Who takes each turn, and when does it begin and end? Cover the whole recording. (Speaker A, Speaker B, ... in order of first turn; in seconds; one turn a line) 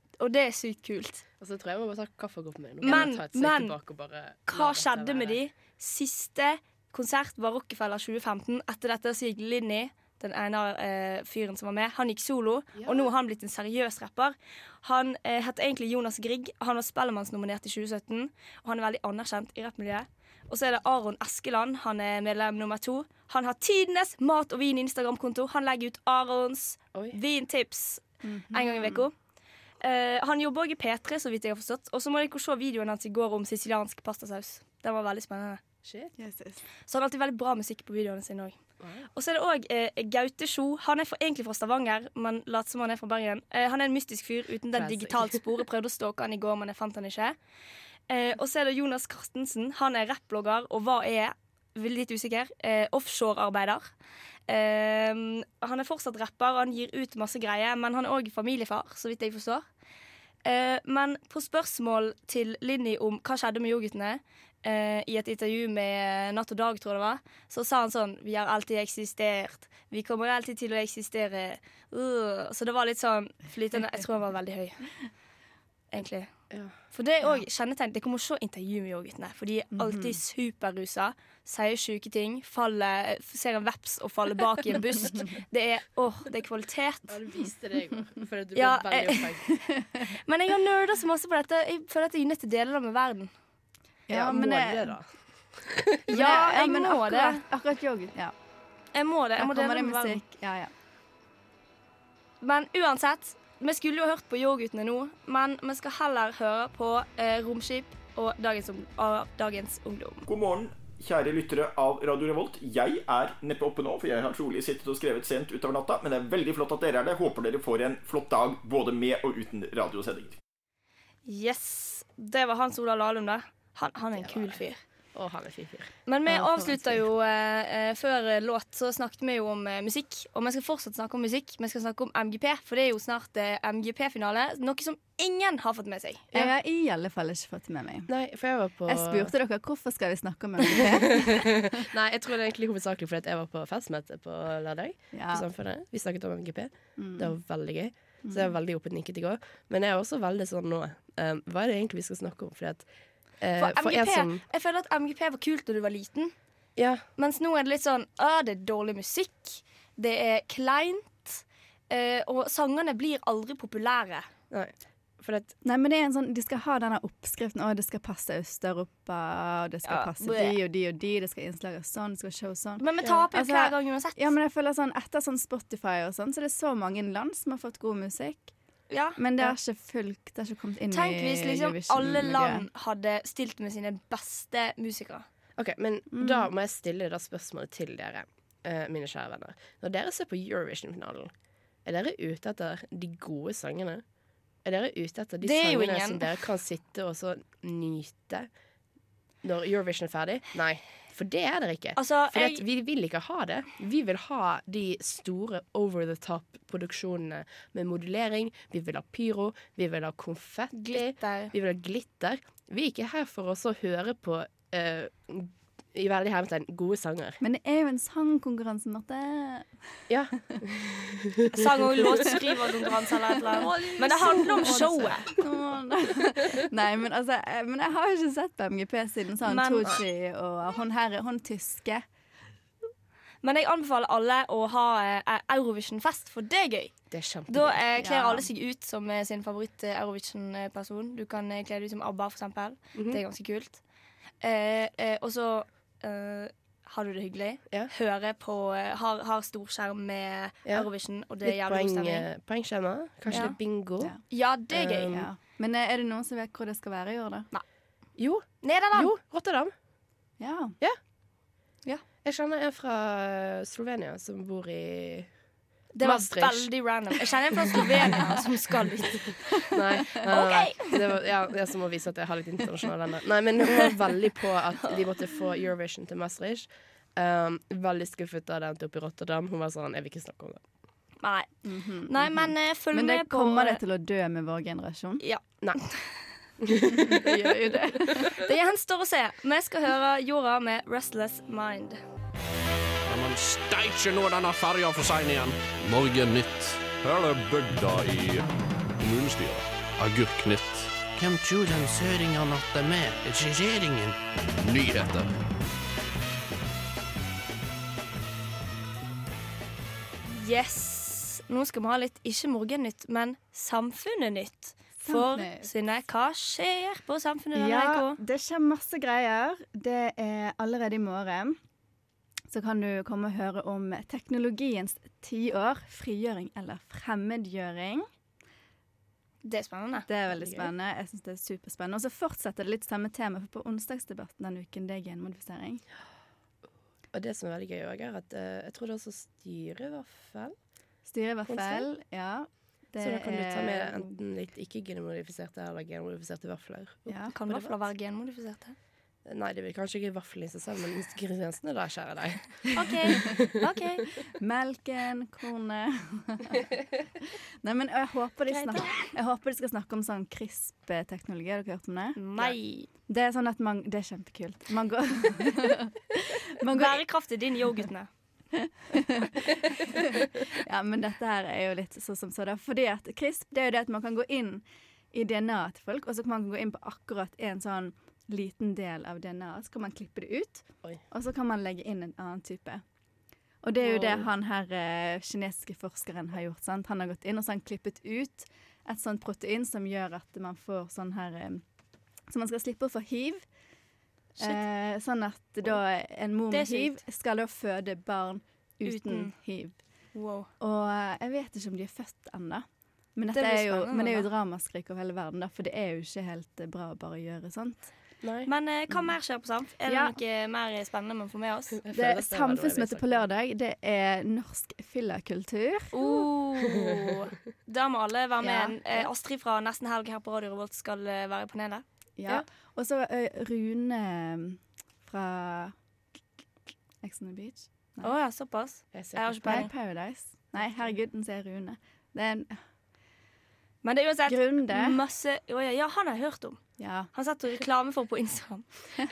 Speaker A: 0.2-1.2
Speaker B: 1.4-5.4
Speaker A: 2.8-3.8
Speaker A: 4.5-29.1
Speaker B: 12.8-13.1
Speaker C: 28.2-29.0
Speaker A: 29.8-35.6
Speaker B: 35.8-36.1
Speaker C: 36.2-36.6
Speaker A: 36.9-38.6
Speaker B: 38.8-39.1
Speaker A: 39.1-47.4
Speaker B: 44.7-45.4
Speaker A: 48.1-53.9
Speaker A: 54.5-59.6
Speaker A: 60.4-74.8
Speaker A: 75.9-76.3
Speaker A: 76.8-87.2
Speaker C: 79.7-80.2
Speaker B: 87.1-89.6
Speaker A: 88.5-89.5
Speaker A: 90.1-93.3
Speaker C: 94.1-95.0
Speaker B: 94.1-96.1
Speaker C: 96.1-98.3
Speaker A: 96.1-97.4
Speaker A: 98.9-100.2
Speaker C: 99.4-100.7
Speaker A: 102.4-110.2
Speaker D: 110.2-120.4
Speaker A: 121.2-124.8
Speaker B: 124.2-124.6
Speaker B: 125.1-125.9
Speaker A: 126.1-136.2
Speaker C: 126.3-127.0
Speaker C: 136.3-138.1
Speaker B: 138.1-139.3
Speaker C: 138.9-141.8
Speaker B: 140.7-154.4
Speaker C: 145.1-145.4
Speaker C: 147.0-147.3
Speaker C: 148.2-148.5
Speaker A: 153.6-156.3
Speaker B: 156.8-157.1
Speaker A: 157.2-164.3
Speaker B: 164.5-165.5
Speaker C: 165.6-178.5
Speaker A: 169.8-170.6
Speaker A: 172.8-174.3
Speaker A: 178.9-179.5
Speaker C: 179.2-182.7
Speaker A: 180.9-185.2
Speaker B: 185.6-191.3
Speaker C: 186.1-186.5
Speaker B: 191.8-194.0
Speaker B: 194.6-198.5
Speaker A: 195.4-196.3
Speaker B: 199.4-217.4
Speaker A: 201.9-202.6
Speaker A: 210.7-211.5
Speaker C: 217.4-219.8
Speaker B: 220.1-221.5
Speaker A: 221.5-225.2
Speaker C: 223.5-232.1
Speaker B: 223.6-225.4
Speaker A: 229.4-230.0
Speaker A: 233.4-243.8
Speaker B: 237.1-237.8
Speaker C: 238.0-238.5
Speaker B: 242.9-243.2
Speaker A: 244.4-252.3
Speaker B: 251.4-254.1
Speaker C: 253.3-254.2
Speaker A: 253.3-253.6
Speaker A: 254.3-255.2
Speaker B: 254.7-255.3
Speaker C: 255.1-257.5
Speaker B: 258.2-259.7
Speaker A: 258.6-259.1
Speaker C: 260.4-260.8
Speaker B: 262.2-265.3
Speaker A: 265.9-271.0
Speaker B: 266.0-266.9
Speaker B: 269.7-280.6
Speaker A: 281.2-281.5
Speaker C: 281.6-285.2
Speaker A: 282.1-283.8
Speaker A: 285.2-286.3
Speaker B: 286.6-288.3
Speaker C: 286.9-288.3
Speaker A: 288.3-292.0
Speaker E: 293.1-298.4
Speaker E: 299.0-305.3
Speaker A: 310.2-318.2
Speaker C: 315.0-315.7
Speaker C: 317.5-321.6
Speaker C: 322.5-328.1
Speaker A: 329.4-330.1
Speaker C: 330.1-335.8
Speaker B: 330.3-330.7
Speaker B: 337.1-340.5
Speaker C: 341.1-344.1
Speaker B: 341.4-341.9
Speaker B: 343.0-347.7
Speaker C: 347.1-347.3
Speaker A: 347.3-348.8
Speaker B: 349.2-353.4
Speaker A: 352.7-354.1
Speaker C: 354.2-356.6
Speaker C: 357.6-362.2
Speaker A: 358.5-359.1
Speaker A: 362.1-362.9
Speaker C: 363.1-367.2
Speaker A: 366.7-368.1
Speaker C: 368.6-382.8
Speaker C: 383.6-391.6
Speaker B: 383.8-384.3
Speaker C: 392.3-393.4
Speaker A: 394.4-394.6
Speaker C: 394.4-399.8
Speaker A: 396.5-397.0
Speaker A: 398.8-399.3
Speaker A: 400.1-400.5
Speaker C: 400.6-407.9
Speaker A: 403.3-404.3
Speaker B: 408.2-408.5
Speaker A: 408.4-411.7
Speaker C: 409.9-410.2
Speaker B: 411.7-413.2
Speaker C: 411.9-416.2
Speaker A: 415.9-422.4
Speaker B: 418.4-419.1
Speaker C: 422.2-425.8
Speaker C: 427.0-428.1
Speaker A: 428.0-429.7
Speaker B: 428.9-429.7
Speaker C: 429.4-432.6
Speaker A: 433.8-436.6
Speaker C: 434.3-435.0
Speaker C: 436.8-437.1
Speaker A: 437.1-438.7